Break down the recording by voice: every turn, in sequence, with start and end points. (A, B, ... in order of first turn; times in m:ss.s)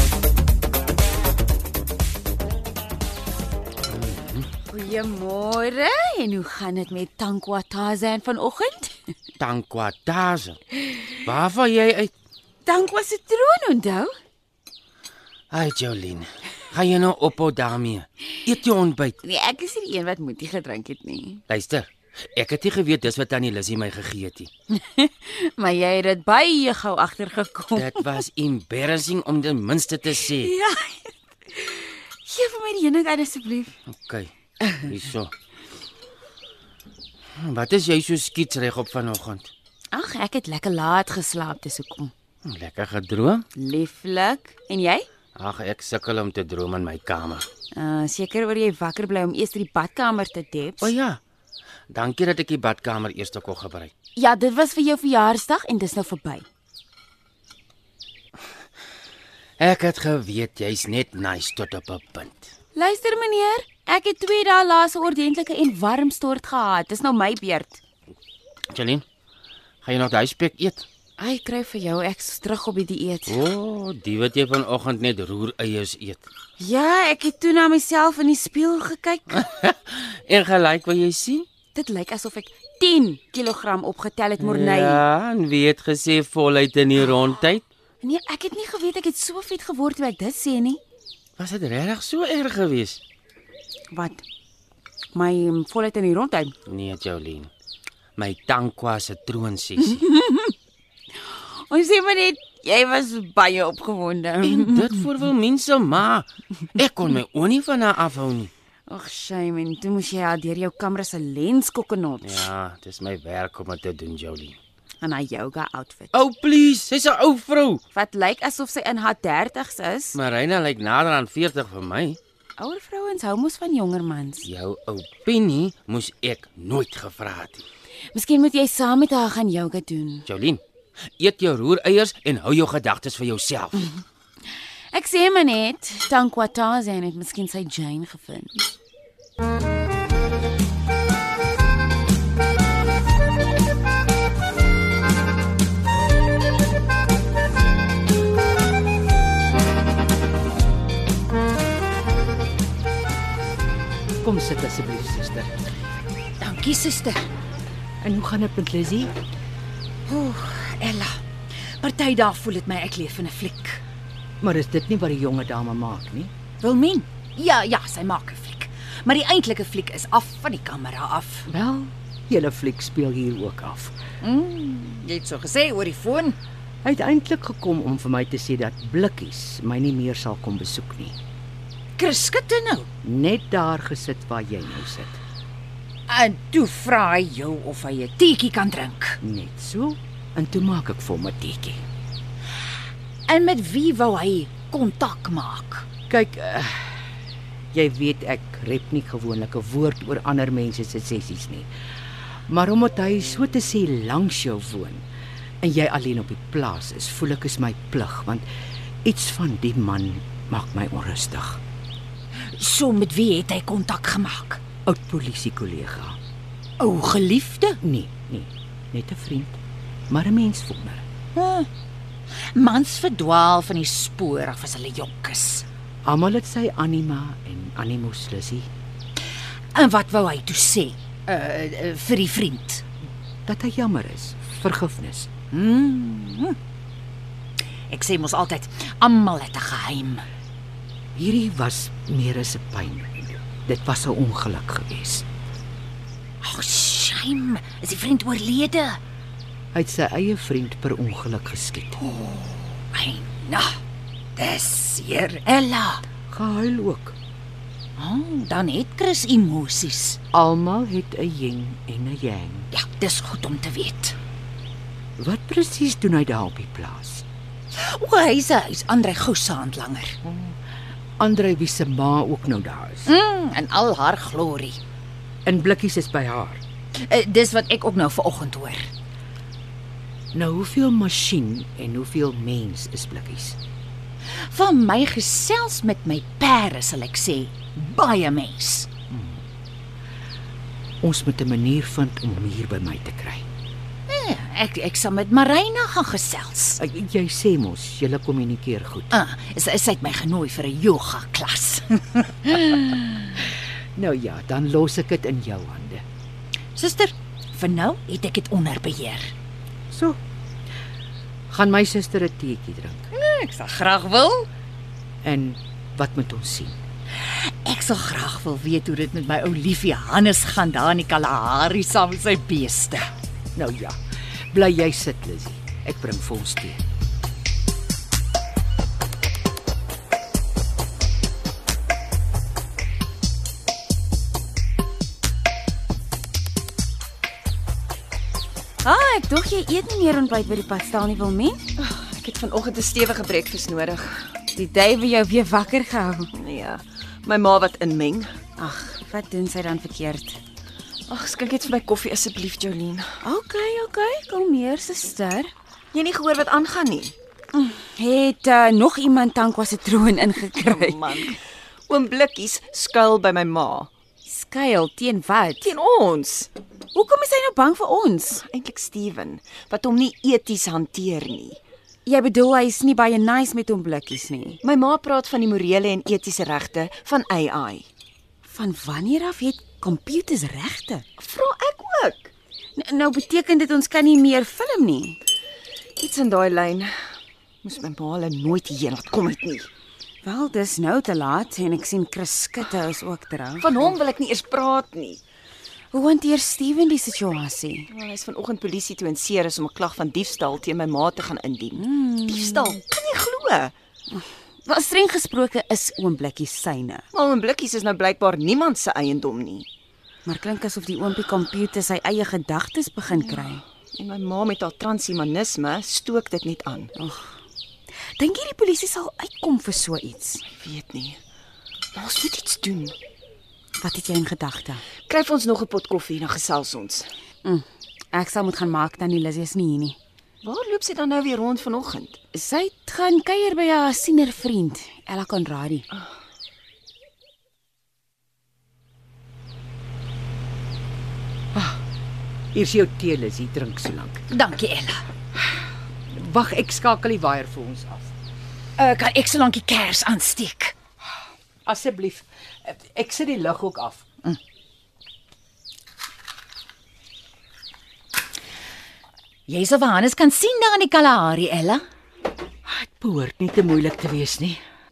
0:03.9-0:04.5 A
0:04.7-0:09.0 B
0:09.4-0:10.6 A
0:11.2-0:12.1 A
0:12.6-0:14.2 B
0:15.5-0:19.2 A
0:19.2-0:21.4 B
0:21.5-0:24.5 A
0:24.7-0:28.1 B
0:27.8-0:30.5 A
0:30.2-0:33.8 B
0:33.9-0:35.3 A
0:37.4-0:39.5 A
0:39.9-0:42.1 B
0:42.4-0:43.4 A
0:43.6-0:45.1 B
0:45.4-0:47.5 A
0:47.7-0:50.9 B
0:50.8-0:51.2 A
0:51.9-0:53.9 A
0:54.2-0:56.5 B
0:59.6-1:02.5 A
1:02.8-1:07.8 B
1:08.7-1:09.0 A
1:09.8-1:10.8 A
1:11.2-1:13.4 B
1:13.3-1:16.2 A
1:16.6-1:19.5 B
1:19.3-1:21.5 A
1:21.7-1:25.0 B
1:24.4-1:27.6 A
1:28.0-1:30.8 B
1:31.4-1:33.0 A
1:33.9-1:34.2 B
1:35.1-1:36.6 B
1:36.7-1:37.5 A
1:38.2-1:40.0 A
1:39.8-1:40.5 B
1:41.3-1:45.1 B
1:44.4-1:48.5 A
1:48.9-1:52.5 B
1:52.2-1:54.6 A
1:55.0-1:56.1 B
1:56.1-1:57.8 A
1:57.9-2:00.2 B
2:00.2-2:02.2 A
2:02.6-2:04.5 B
2:04.4-2:07.6 A
2:08.1-2:10.3 B
2:10.3-2:10.6 A
2:11.2-2:13.9 A
2:14.9-2:18.7 B
2:34.2-2:35.5 C
2:36.4-2:37.3 D
2:38.0-2:39.2 C
2:40.1-2:41.2 D
2:41.8-2:43.8 D
2:44.4-2:46.3 C
2:46.6-2:51.5 D
2:51.5-2:54.0 C
2:54.2-2:56.4 D
2:56.8-3:01.2 C
3:02.0-3:02.9 D
3:03.0-3:05.2 C
3:06.1-3:09.2 D
3:09.2-3:11.8 C
3:13.3-3:15.9 D
3:16.1-3:17.2 C
3:17.7-3:21.7 C
3:22.5-3:25.0 C
3:25.6-3:28.5 C
3:29.0-3:31.6 C
3:32.5-3:34.6 D
3:34.8-3:36.2 C
3:36.8-3:37.8 D
3:37.8-3:39.6 C
3:40.1-3:41.0 C
3:41.4-3:41.7 D
3:42.3-3:45.7 D
3:46.0-3:48.7 C
3:49.8-3:52.8 D
3:53.5-3:55.3 C
3:55.5-3:56.6 D
3:57.9-4:00.2 D
4:01.2-4:05.3 C
4:06.4-4:09.0 D
4:09.7-4:12.0 C
4:12.9-4:13.8 D
4:14.4-4:16.0 D
4:16.3-4:17.2 C
4:18.0-4:20.2 D
4:20.3-4:22.7 C
4:22.7-4:24.2 D
4:25.2-4:27.3 C
4:27.7-4:30.2 D
4:30.2-4:30.6 C
4:31.2-4:33.1 C
4:33.1-4:34.8 D
4:35.4-4:36.6 C
4:37.0-4:38.9 D
4:40.3-4:43.6 C
4:44.3-4:48.9 D
4:49.1-4:49.4 C
4:51.0-4:53.4 C
4:54.1-4:56.8 D
4:56.8-4:59.2 C
4:59.1-5:03.2 D
5:03.5-5:06.0 C
5:06.8-5:09.3 D
5:09.9-5:10.2 C
5:11.5-5:13.1 C
5:13.1-5:14.5 D
5:15.2-5:16.8 C
5:17.2-5:23.1 D
5:23.6-5:24.0 C
5:24.5-5:26.9 C
5:38.8-5:41.7 B
5:41.8-5:44.3 E
5:44.5-5:46.3 B
5:46.3-5:48.3 E
5:48.6-5:50.4 B
5:51.1-5:53.2 E
5:53.2-5:55.5 B
5:55.9-5:57.2 E
5:57.5-6:01.4 B
6:00.6-6:01.4 E
6:01.9-6:03.9 E
6:04.2-6:05.7 B
6:05.6-6:06.5 E
6:06.9-6:08.4 B
6:08.4-6:11.6 E
6:12.1-6:14.6 B
6:14.6-6:17.9 E
6:18.4-6:21.1 B
6:21.2-6:22.3 E
6:22.8-6:25.2 B
6:26.0-6:27.0 E
6:27.6-6:29.7 E
6:30.2-6:33.8 B
6:33.6-6:35.2 E
6:35.9-6:37.9 B
6:37.9-6:43.7 E
6:41.8-6:42.7 B
6:44.1-6:47.1 B
6:47.1-6:49.7 E
6:50.3-6:53.6 B
6:53.9-6:56.9 E
6:57.0-6:57.4 B
6:58.2-7:00.4 B
7:00.5-7:01.2 E
7:01.9-7:03.0 E
7:03.8-7:04.8 B
7:05.1-7:07.1 E
7:07.4-7:10.0 B
7:10.4-7:12.2 E
7:12.3-7:15.9 B
7:21.5-7:21.8 C
7:22.5-7:24.3 C
7:24.3-7:25.0 D
7:26.1-7:28.2 C
7:28.8-7:30.7 D
7:31.6-7:34.1 C
7:39.5-7:41.8 D
7:42.7-7:44.6 C